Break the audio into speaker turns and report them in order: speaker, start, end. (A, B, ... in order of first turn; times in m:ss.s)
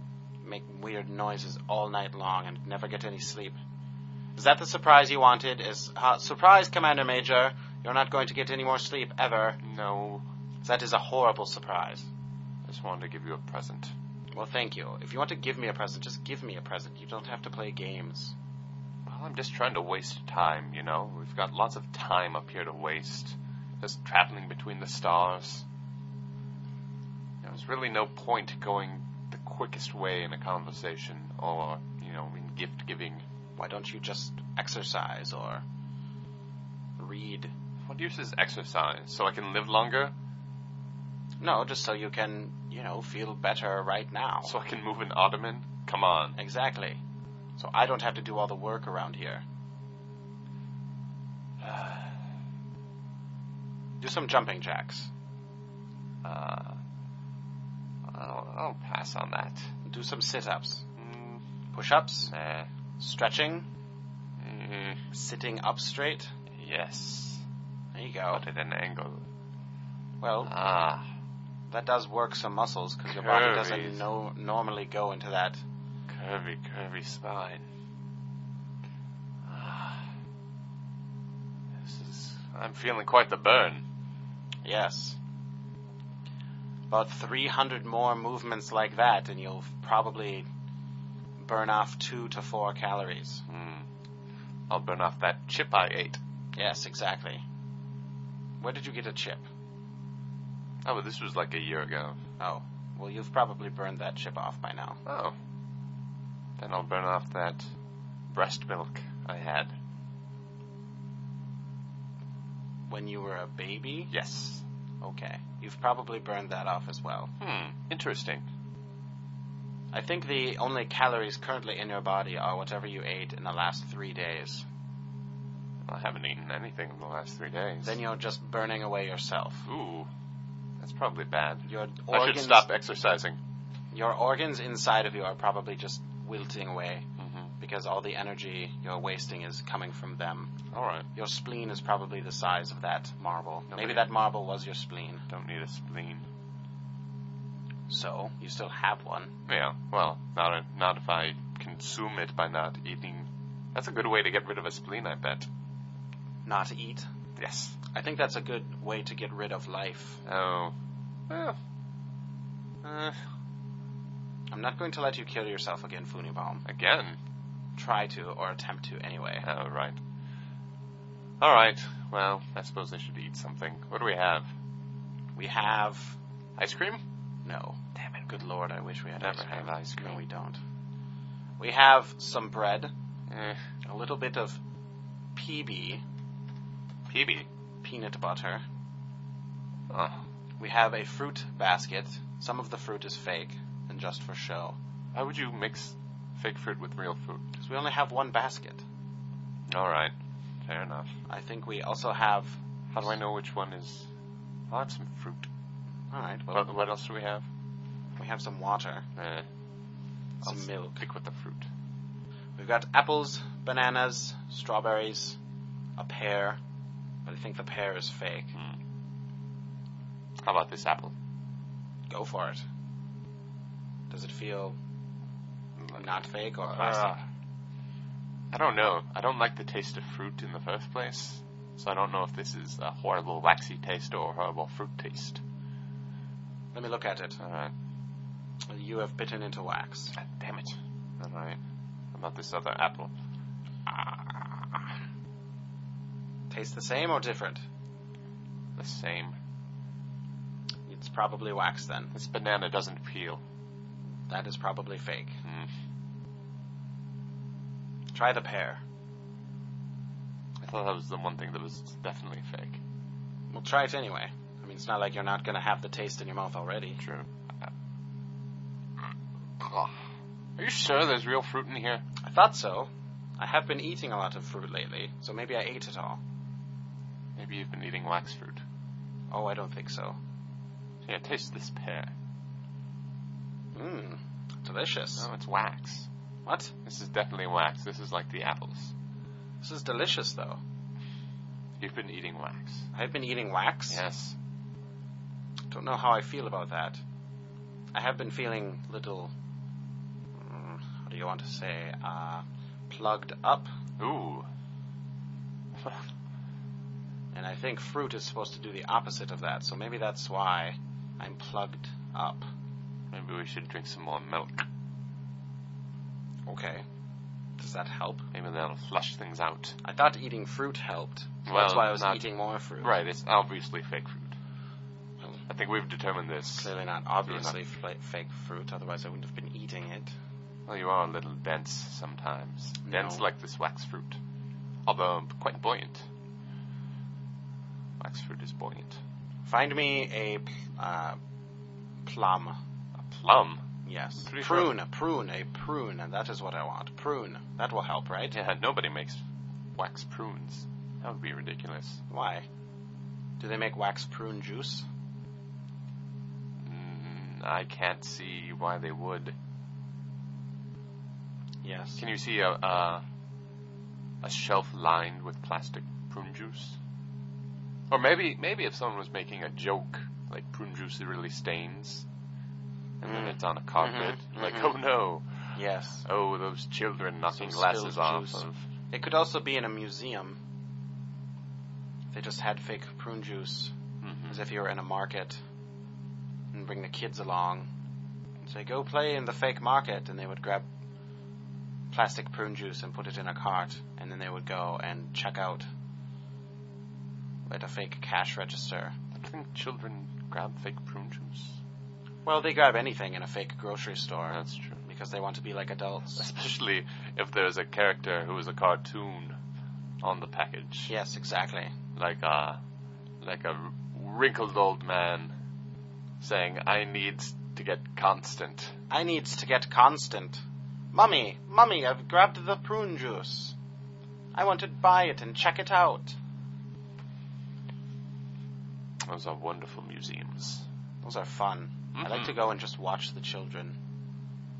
0:00.4-0:03.6 A
0:04.4-0:09.6 A
0:09.6-0:10.2 B
0:10.6-0:12.1 A
0:12.7-0:13.9 B
0:14.3-0:18.4 A
0:19.1-0:25.6 B
0:27.4-0:33.2 B
0:33.6-0:35.6 A
0:37.0-0:37.5 A
0:37.9-0:40.1 B
0:41.4-0:44.6 A
0:44.4-0:46.4 B
0:46.4-0:47.0 A
0:47.6-0:49.4 A
0:51.6-0:52.1 B
0:54.0-0:55.1 A
0:56.2-0:56.8 B
0:58.1-0:59.7 B
0:59.8-1:00.8 A
1:01.0-1:01.4 B
1:01.7-1:02.3 A
1:02.3-1:02.7 B
1:03.0-1:03.7 A
1:04.4-1:05.0 B
1:05.1-1:06.3 A
1:06.6-1:07.4 B
1:07.9-1:08.4 A
1:08.3-1:09.3 B
1:10.2-1:10.6 A
1:10.5-1:11.1 B
1:11.7-1:15.6 A
1:13.1-1:14.1 B
1:16.1-1:17.7 B
1:19.5-1:20.1 B
1:21.8-1:23.8 B
1:24.6-1:25.2 A
1:26.9-1:30.5 A
1:31.4-1:33.4 A
1:33.5-1:33.9 B
1:34.7-1:36.2 B
1:36.6-1:37.4 A
1:38.6-1:39.5 A
1:40.8-1:42.2 B
1:42.4-1:45.0 A
1:45.1-1:45.4 B
1:46.6-1:47.7 B
1:48.3-1:49.7 B
1:52.9-1:54.1 A
1:54.1-1:54.6 B
1:55.0-1:57.3 A
1:57.4-1:58.5 B
1:59.9-2:04.7 A
2:05.9-2:08.0 B
2:07.8-2:09.7 A
2:09.7-2:10.1 B
2:10.8-2:13.4 B
2:11.7-2:12.7 A
2:13.9-2:17.0 A
2:17.2-2:17.5 B
2:17.6-2:20.5 A
2:20.7-2:21.1 B
2:21.1-2:25.3 A
2:23.7-2:24.1 B
2:25.3-2:26.3 B
2:27.9-2:29.3 A
2:29.5-2:35.5 B
2:36.4-2:37.1 A
2:37.4-2:37.8 B
2:37.9-2:40.2 A
2:40.2-2:40.8 B
2:41.3-2:41.6 B
2:42.8-2:43.2 B
2:44.5-2:46.6 A
2:46.6-2:47.2 B
2:47.8-2:49.4 A
2:49.4-2:50.0 B
2:51.4-2:54.5 B
2:55.4-2:56.2 A
2:56.6-2:57.0 B
2:57.4-3:00.6 A
2:59.2-3:00.2 B
3:01.6-3:02.9 A
3:03.3-3:03.6 B
3:03.8-3:04.6 A
3:05.3-3:06.0 A
3:07.1-3:07.5 B
3:07.8-3:08.6 A
3:09.9-3:10.2 B
3:10.6-3:14.8 A
3:15.1-3:17.4 B
3:17.6-3:18.8 A
3:19.7-3:20.1 B
3:20.6-3:21.1 B
3:21.3-3:22.6 A
3:22.9-3:24.1 B
3:24.7-3:25.5 B
3:26.1-3:26.8 A
3:26.5-3:27.5 B
3:28.2-3:29.0 A
3:29.2-3:29.5 B
3:30.4-3:31.0 A
3:30.4-3:31.7 B
3:32.6-3:35.4 A
3:36.0-3:36.6 A
3:37.2-3:38.6 A
3:40.4-3:41.2 B
3:42.1-3:42.6 A
3:44.1-3:44.8 A
3:45.8-3:47.2 B
3:45.9-3:47.2 A
3:48.5-3:55.4 B
3:56.7-3:57.4 A
3:57.4-3:57.7 B
3:58.7-4:00.2 A
4:00.2-4:01.6 B
4:02.1-4:03.1 B
4:04.0-4:04.5 A
4:06.5-4:07.6 A
4:08.8-4:09.4 B
4:10.9-4:12.1 A
4:12.1-4:13.4 B
4:14.3-4:15.4 A
4:15.4-4:15.7 B
4:18.1-4:18.8 A
4:20.6-4:22.8 B
4:23.5-4:27.0 A
4:27.0-4:27.3 B
4:29.6-4:30.0 B
4:30.6-4:32.0 B
4:32.2-4:36.2 A
4:37.4-4:38.6 B
4:39.3-4:40.2 A
4:41.1-4:42.1 B
4:43.7-4:45.3 A
4:45.2-4:46.1 B
4:46.4-4:46.7 A
4:46.8-4:48.9 B
4:49.6-4:50.6 A
4:51.8-4:52.9 B
4:52.9-4:54.0 A
4:53.9-4:54.4 B
4:55.7-4:57.0 A
4:57.9-4:59.3 A
5:00.4-5:03.7 A
5:04.0-5:04.5 B
5:07.3-5:12.4 A
5:13.1-5:14.6 B
5:16.5-5:16.8 A
5:17.6-5:18.3 A
5:18.3-5:19.8 B
5:19.8-5:23.0 A
5:21.5-5:22.2 B
5:22.8-5:24.4 B
5:25.5-5:26.7 B
5:26.6-5:30.1 A
5:27.2-5:27.6 B
5:30.7-5:34.2 B
5:32.9-5:33.3 A
5:34.9-5:36.1 B
5:38.0-5:39.0 B
5:39.4-5:41.2 A
5:42.0-5:42.6 A
5:43.0-5:43.6 B
5:43.8-5:48.4 A
5:44.2-5:44.8 B
5:48.3-5:49.2 B
5:49.8-5:52.0 B
5:52.1-5:52.5 A
5:53.4-5:54.9 A
5:56.6-5:59.4 B
6:01.6-6:02.0 A
6:02.0-6:03.0 B
6:04.2-6:06.8 B
6:07.9-6:12.1 B
6:13.0-6:15.5 B
6:13.0-6:14.8 A
6:15.6-6:16.0 A
6:16.0-6:18.6 B
6:17.4-6:20.4 A
6:22.1-6:23.7 A
6:24.0-6:24.4 B
6:24.3-6:25.4 A
6:26.5-6:27.7 A
6:28.4-6:30.7 A
6:31.9-6:35.7 A
6:37.5-6:39.0 A
6:39.1-6:41.6 B
6:42.2-6:46.3 A
6:44.3-6:44.8 B
6:46.2-6:49.4 B
6:50.0-6:50.9 B
6:50.9-6:51.7 A
6:52.0-6:52.6 B
6:53.2-6:55.3 B
6:56.2-6:58.8 B
6:58.9-7:03.6 A
7:04.3-7:06.2 A
7:09.1-7:10.6 B
7:11.0-7:13.8 A
7:12.0-7:12.4 B